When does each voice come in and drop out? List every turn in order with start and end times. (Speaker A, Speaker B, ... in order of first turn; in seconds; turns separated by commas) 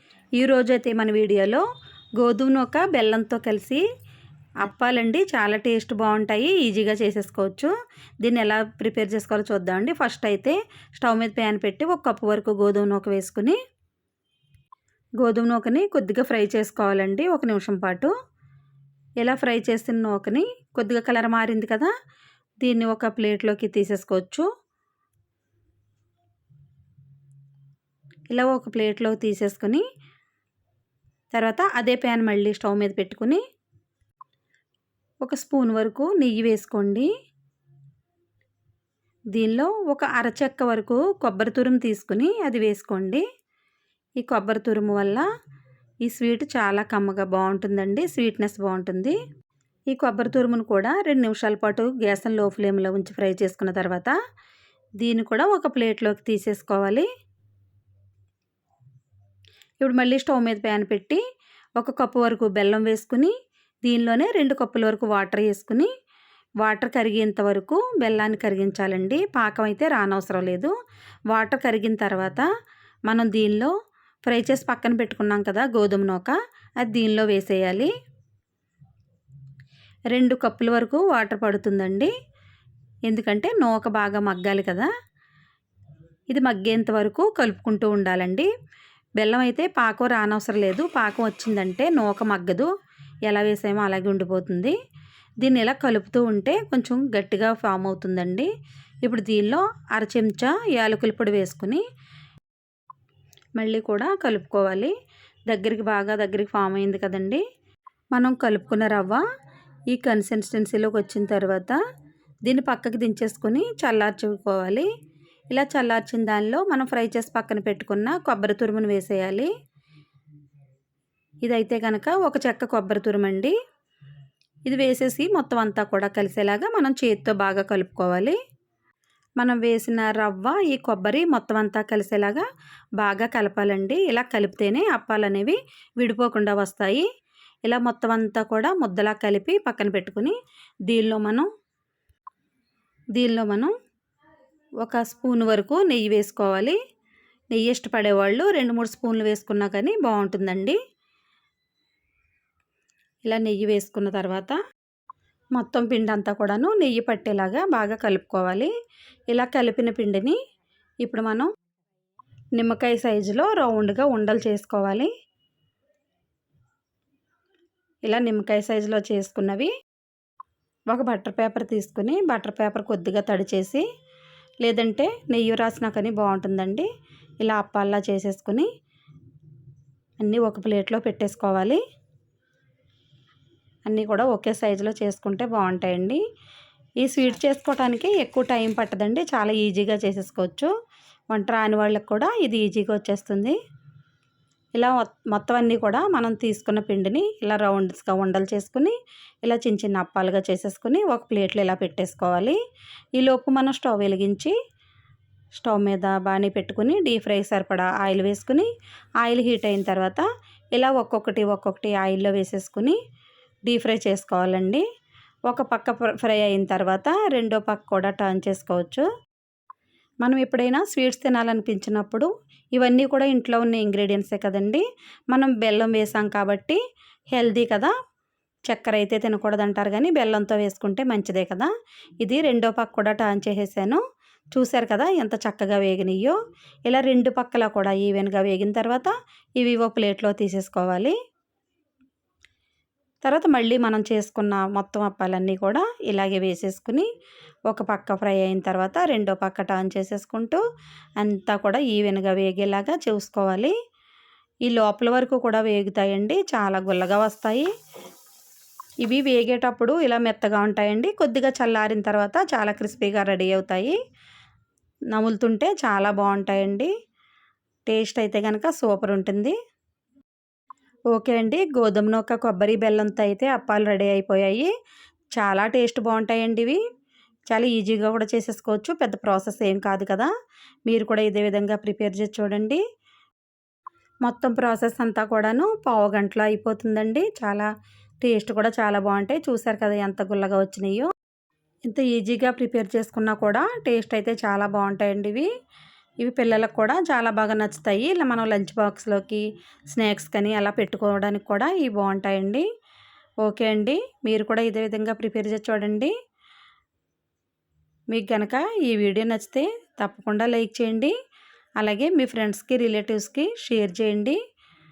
Speaker A: 0.4-1.6, Speaker A: 2.2-3.8, Speaker A: 4.6-7.7, Speaker A: 8.2-13.6, Speaker A: 15.2-18.1, Speaker A: 19.2-21.9, Speaker A: 22.6-24.5, Speaker A: 28.3-29.8, Speaker A: 31.3-33.4, Speaker A: 35.2-37.1, Speaker A: 39.3-43.2, Speaker A: 44.2-45.2, Speaker A: 46.0-49.2, Speaker A: 49.9-54.1, Speaker A: 55.0-57.1, Speaker A: 59.8-61.2, Speaker A: 61.8-63.3, Speaker A: 63.8-65.9, Speaker A: 66.6-70.7, Speaker A: 71.3-72.4, Speaker A: 73.1-73.7, Speaker A: 74.2-77.9, Speaker A: 80.1-82.1, Speaker A: 83.1-84.9, Speaker A: 86.3-88.5, Speaker A: 89.2-92.7, Speaker A: 93.3-94.8, Speaker A: 95.4-98.5, Speaker A: 99.0-101.8, Speaker A: 103.6-104.9, Speaker A: 105.5-107.4, Speaker A: 108.1-109.2, Speaker A: 109.9-111.8, Speaker A: 112.5-114.9, Speaker A: 115.5-119.5, Speaker A: 121.4-123.5, Speaker A: 124.7-128.4, Speaker A: 129.4-132.4, Speaker A: 133.0-137.1, Speaker A: 137.7-140.3, Speaker A: 140.9-141.5, Speaker A: 143.2-143.7, Speaker A: 144.8-146.8, Speaker A: 147.5-150.8, Speaker A: 153.3-154.6, Speaker A: 155.6-158.7, Speaker A: 159.3-160.4, Speaker A: 161.0-161.5, Speaker A: 162.6-165.1, Speaker A: 168.1-169.7, Speaker A: 170.9-173.8, Speaker A: 174.6-176.9, Speaker A: 177.4-178.7, Speaker A: 180.2-181.8, Speaker A: 183.8-186.2, Speaker A: 187.0-190.7, Speaker A: 191.3-193.6, Speaker A: 194.8-202.6, Speaker A: 203.2-204.5, Speaker A: 205.6-208.7, Speaker A: 209.2-213.0, Speaker A: 213.7-214.8, Speaker A: 215.5-219.1, Speaker A: 220.2-226.8, Speaker A: 227.3-227.9, Speaker A: 228.7-231.7, Speaker A: 232.2-234.0, Speaker A: 234.5-236.4, Speaker A: 236.9-241.1, Speaker A: 243.2-247.1, Speaker A: 247.7-250.6, Speaker A: 251.2-253.7, Speaker A: 254.7-257.7, Speaker A: 259.0-264.0, Speaker A: 265.1-266.9, Speaker A: 267.9-269.6, Speaker A: 271.1-274.7, Speaker A: 275.4-276.8, Speaker A: 277.5-280.3, Speaker A: 280.9-282.8, Speaker A: 284.2-287.7, Speaker A: 288.2-291.1, Speaker A: 291.9-295.5, Speaker A: 296.2-302.6, Speaker A: 303.4-306.1, Speaker A: 308.1-311.1, Speaker A: 311.8-314.4